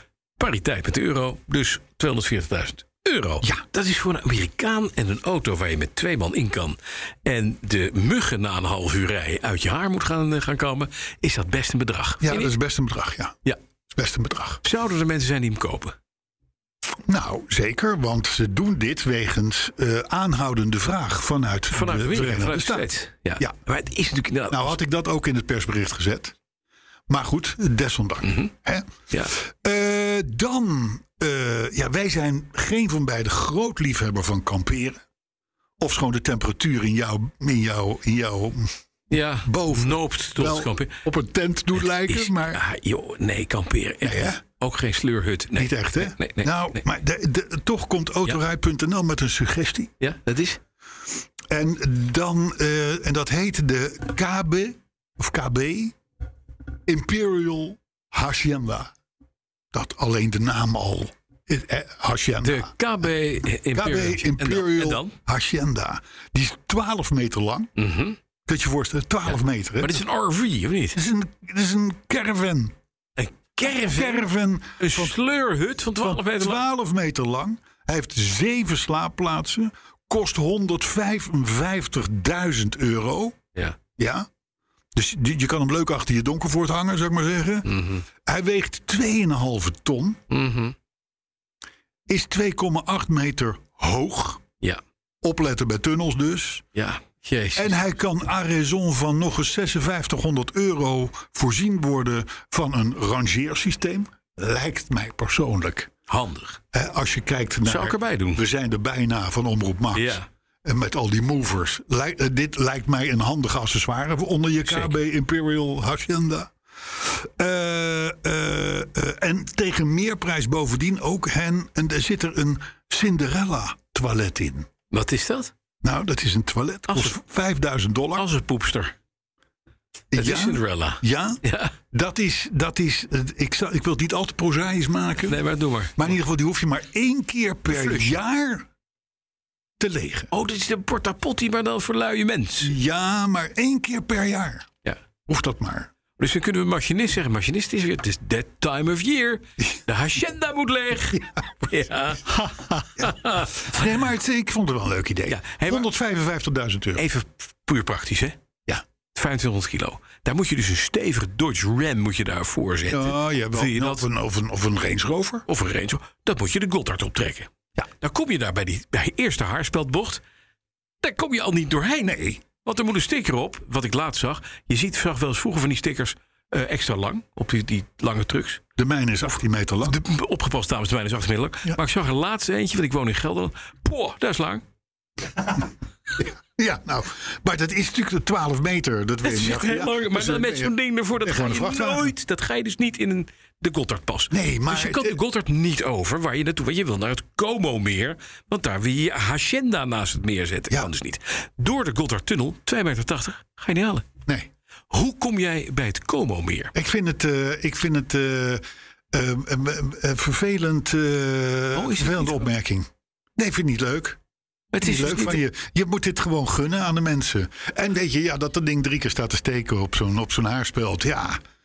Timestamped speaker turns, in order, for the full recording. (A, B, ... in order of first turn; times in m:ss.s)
0:00.4-0:12.5 A
0:12.2-0:13.4 B
0:13.9-0:14.6 B
0:14.6-0:15.9 A
0:17.0-0:22.8 B
0:21.7-0:24.8 A
0:24.5-0:26.3 B
0:27.1-0:35.0 B
0:28.2-0:28.5 A
0:35.8-0:38.7 B
0:39.1-0:41.0 A
0:39.4-0:42.6 B
0:41.9-0:46.8 A
0:44.0-0:44.4 B
0:45.5-0:49.9 B
0:50.0-0:50.6 A
0:51.5-0:56.0 B
0:56.8-0:58.9 B
0:59.7-1:02.7 B
1:02.4-1:05.2 A
1:03.7-1:07.7 B
1:07.8-1:08.2 A
1:08.4-1:10.0 B
1:09.3-1:11.0 A
1:10.9-1:12.7 B
1:13.2-1:16.6 A
1:13.6-1:15.1 B
1:16.0-1:23.4 B
1:24.0-1:24.3 B
1:24.9-1:27.7 B
1:27.6-1:28.0 A
1:28.2-1:30.2 B
1:30.3-1:30.7 A
1:32.1-1:34.4 B
1:35.2-1:36.6 B
1:36.7-1:37.8 A
1:37.5-1:45.9 B
1:46.1-1:46.6 A
1:46.7-2:04.7 B
1:47.6-1:48.4 A
1:49.9-1:50.3 A
1:54.6-1:54.9 A
2:04.9-2:05.5 A
2:05.8-2:08.3 B
2:06.9-2:07.1 A
2:08.2-2:08.9 A
2:10.1-2:11.4 B
2:10.1-2:11.7 A
2:11.9-2:15.4 B
2:15.3-2:16.1 A
2:16.0-2:18.7 B
2:17.7-2:18.2 A
2:19.8-2:20.3 B
2:20.3-2:22.7 A
2:22.6-2:24.7 B
2:25.3-2:25.9 B
2:26.2-2:33.8 A
2:32.3-2:37.0 B
2:35.3-2:35.9 A
2:37.0-2:38.4 A
2:39.1-2:44.0 A
2:42.9-2:45.4 B
2:45.5-2:47.5 A
2:48.0-2:50.2 A
2:51.0-2:58.6 A
2:52.0-2:52.4 B
2:58.8-3:00.0 B
2:59.8-3:04.6 A
3:06.2-3:12.1 B
3:09.2-3:24.0 A
3:14.3-3:15.2 B
3:24.9-3:26.7 A
3:26.7-3:34.2 B
3:31.7-3:32.5 A
3:34.7-3:35.4 A
3:34.8-3:41.4 B